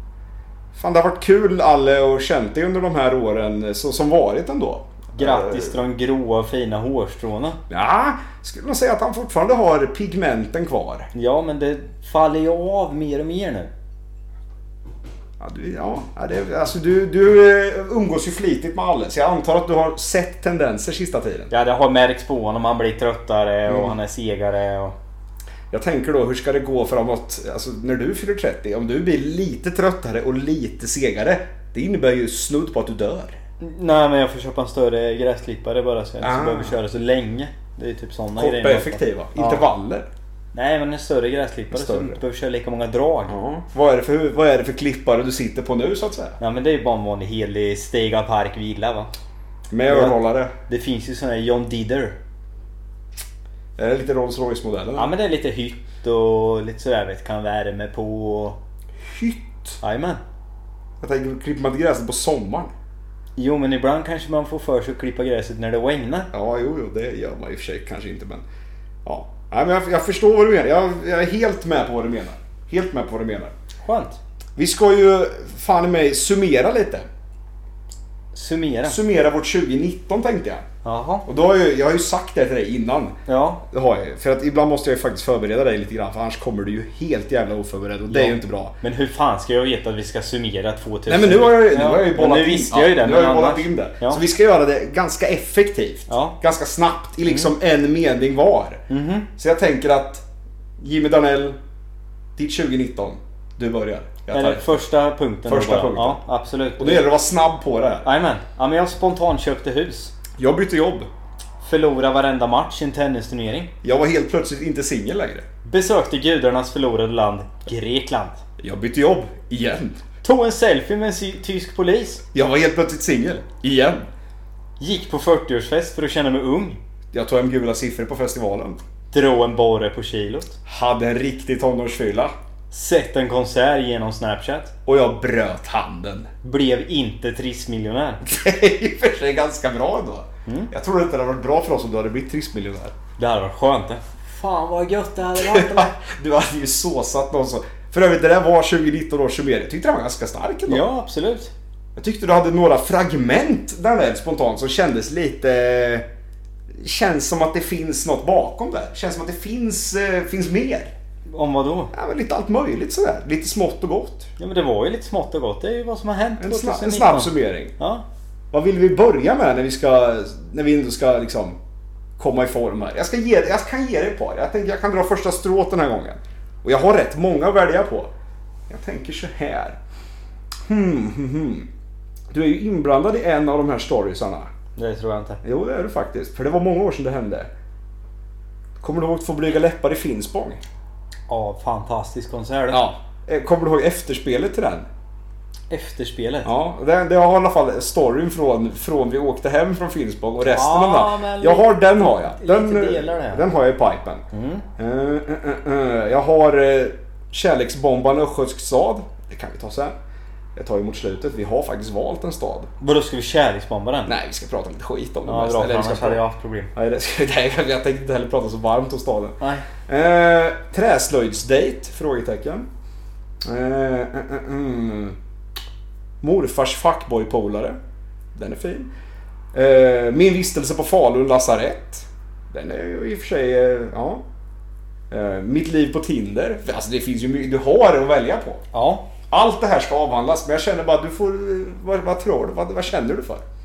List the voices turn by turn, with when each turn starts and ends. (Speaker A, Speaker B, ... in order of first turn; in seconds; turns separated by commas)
Speaker A: 0.7-5.8, Speaker B: 5.1-7.6, Speaker A: 7.7-11.1, Speaker B: 11.1-13.7, Speaker A: 15.4-21.5, Speaker B: 21.5-24.9, Speaker A: 23.7-23.9, Speaker A: 25.7-33.4, Speaker B: 33.6-39.6, Speaker A: 36.2-36.8, Speaker A: 38.4-40.1, Speaker B: 40.5-43.4, Speaker A: 41.7-42.2, Speaker A: 43.3-46.4, Speaker B: 46.4-49.1, Speaker A: 49.7-50.5, Speaker B: 49.9-50.2, Speaker B: 50.7-52.1, Speaker A: 53.8-55.1, Speaker B: 55.0-58.6, Speaker A: 59.1-59.8, Speaker B: 59.8-60.2, Speaker A: 61.0-62.7, Speaker B: 63.4-66.3, Speaker A: 66.3-68.4, Speaker A: 69.0-73.5, Speaker B: 73.8-74.2, Speaker A: 74.6-77.0, Speaker B: 78.3-79.0, Speaker A: 78.8-80.6, Speaker B: 80.8-81.2, Speaker A: 81.2-88.7, Speaker B: 83.3-83.6, Speaker B: 88.1-94.2, Speaker A: 91.1-98.8, Speaker B: 96.1-96.4, Speaker B: 98.9-99.3, Speaker A: 99.4-100.2, Speaker A: 100.8-101.6, Speaker A: 102.4-104.7, Speaker B: 104.3-107.0, Speaker A: 105.5-106.2, Speaker A: 106.8-108.1, Speaker B: 108.0-110.1, Speaker A: 110.4-111.1, Speaker B: 111.6-113.7, Speaker A: 113.8-115.4, Speaker B: 115.6-118.4, Speaker A: 118.6-120.0, Speaker B: 120.2-122.2, Speaker A: 122.3-124.1, Speaker B: 124.8-126.8, Speaker A: 127.1-128.8, Speaker B: 129.1-130.6, Speaker A: 130.7-132.3, Speaker B: 132.7-134.7, Speaker A: 134.8-136.3, Speaker B: 136.4-138.2, Speaker A: 138.2-142.9, Speaker B: 140.4-140.7, Speaker B: 143.2-145.9, Speaker A: 145.3-150.8, Speaker B: 150.7-151.5, Speaker A: 151.9-156.0, Speaker A: 156.8-160.9, Speaker B: 161.3-161.9, Speaker A: 161.9-164.3, Speaker B: 164.4-168.0, Speaker A: 166.4-167.7, Speaker A: 168.5-171.6, Speaker A: 172.2-178.1, Speaker A: 178.7-179.8, Speaker A: 180.7-181.7, Speaker A: 182.3-184.5, Speaker B: 184.8-185.4, Speaker A: 185.4-187.5, Speaker A: 188.8-190.6, Speaker B: 191.3-192.8, Speaker A: 192.7-194.9, Speaker B: 195.7-196.5, Speaker A: 196.4-204.2, Speaker B: 200.4-203.5, Speaker B: 204.3-204.7, Speaker A: 204.8-209.9, Speaker A: 210.6-212.7, Speaker B: 212.8-214.1, Speaker A: 214.1-216.2, Speaker B: 215.2-216.7, Speaker A: 216.7-222.7, Speaker B: 219.4-219.7, Speaker A: 223.4-225.2, Speaker A: 226.2-227.8, Speaker A: 228.3-228.9, Speaker A: 229.5-234.2, Speaker A: 235.1-238.6, Speaker B: 238.7-239.1, Speaker A: 239.3-243.4